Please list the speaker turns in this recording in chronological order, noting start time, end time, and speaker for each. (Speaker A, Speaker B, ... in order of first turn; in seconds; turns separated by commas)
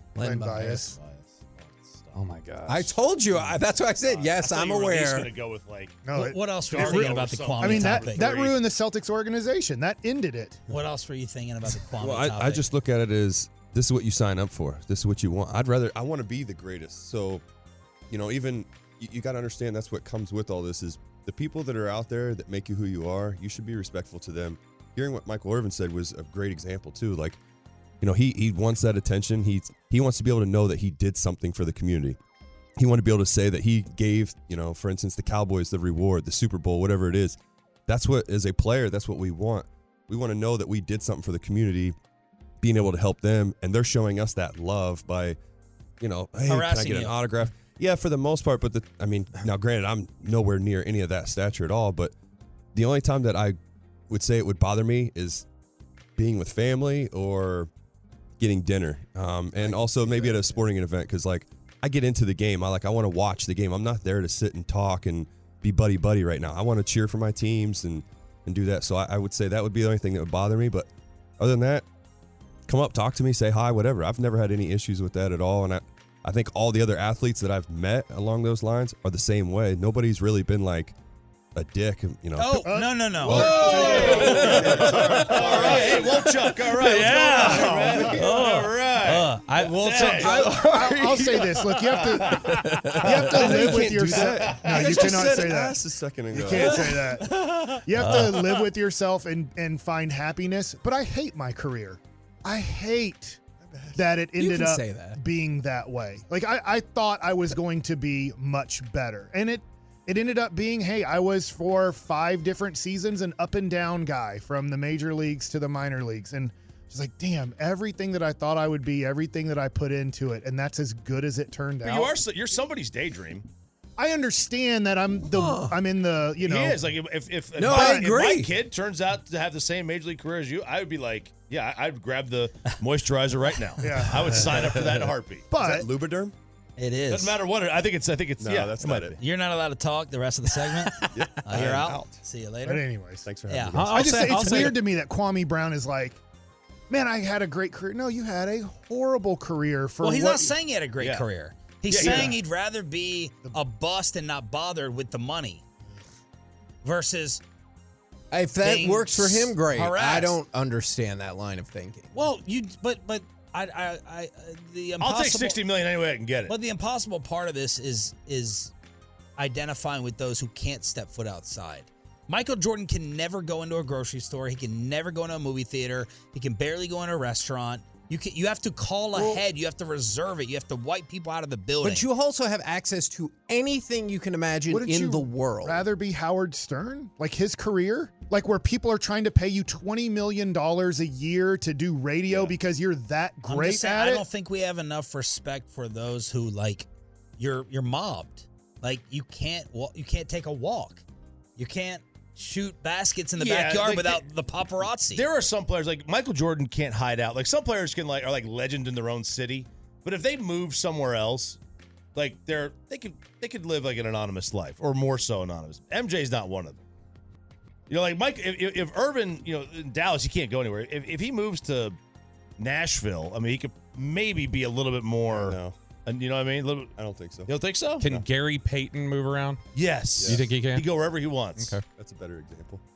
Speaker A: 0.2-0.9, Speaker B: 0.2-1.0, Speaker C: 0.9-2.2, Speaker D: 2.1-3.0, Speaker A: 2.7-5.3, Speaker C: 4.0-6.0, Speaker B: 6.0-10.6, Speaker E: 6.1-8.2, Speaker C: 6.5-8.6, Speaker E: 10.7-12.7, Speaker F: 12.0-17.4, Speaker F: 18.1-27.4, Speaker F: 28.0-32.2, Speaker F: 32.8-42.0, Speaker F: 42.6-45.4, Speaker F: 46.0-52.1, Speaker E: 46.5-47.2, Speaker F: 52.7-53.6, Speaker F: 54.1-55.5, Speaker F: 56.2-57.7, Speaker F: 58.4-71.8, Speaker A: 60.0-60.5, Speaker F: 72.7-81.0, Speaker F: 81.6-82.6, Speaker E: 82.4-86.1, Speaker B: 82.6-84.4, Speaker F: 83.3-85.8, Speaker C: 83.6-91.2, Speaker E: 86.7-91.4, Speaker B: 90.2-95.8, Speaker C: 91.9-92.7, Speaker F: 92.7-97.0, Speaker A: 94.9-95.4, Speaker B: 96.3-103.4, Speaker F: 103.7-104.0, Speaker B: 104.0-122.2, Speaker A: 104.3-105.2, Speaker C: 121.8-123.5, Speaker B: 124.0-126.8, Speaker A: 125.3-125.8, Speaker C: 126.4-135.5, Speaker A: 127.6-128.5, Speaker B: 127.8-128.1, Speaker B: 133.8-134.6, Speaker B: 135.5-135.9, Speaker F: 135.6-136.3, Speaker E: 136.8-137.4, Speaker C: 137.1-139.2, Speaker F: 138.4-139.2, Speaker E: 139.2-142.8, Speaker F: 141.1-142.1, Speaker C: 141.5-142.1, Speaker B: 142.7-143.3, Speaker F: 143.2-144.1, Speaker E: 143.5-144.0, Speaker D: 143.7-144.8, Speaker B: 143.9-146.2, Speaker B: 146.9-150.5, Speaker E: 150.0-155.7, Speaker C: 151.0-151.3, Speaker C: 151.9-152.4, Speaker E: 156.8-157.4, Speaker A: 158.3-162.1, Speaker E: 158.6-160.4, Speaker E: 162.1-165.6, Speaker C: 165.0-166.5, Speaker E: 166.5-168.7, Speaker E: 169.4-182.1, Speaker A: 181.8-185.9, Speaker B: 184.7-194.2, Speaker E: 193.4-196.9, Speaker E: 197.4-201.0, Speaker E: 201.6-205.2, Speaker C: 203.4-204.3, Speaker C: 205.1-211.6, Speaker C: 212.2-216.8, Speaker C: 217.9-222.0, Speaker C: 222.6-228.1, Speaker F: 225.3-225.8, Speaker F: 227.0-227.5, Speaker D: 228.0-229.6, Speaker C: 229.8-231.8, Speaker F: 230.2-230.5, Speaker D: 230.2-230.9, Speaker F: 231.9-232.8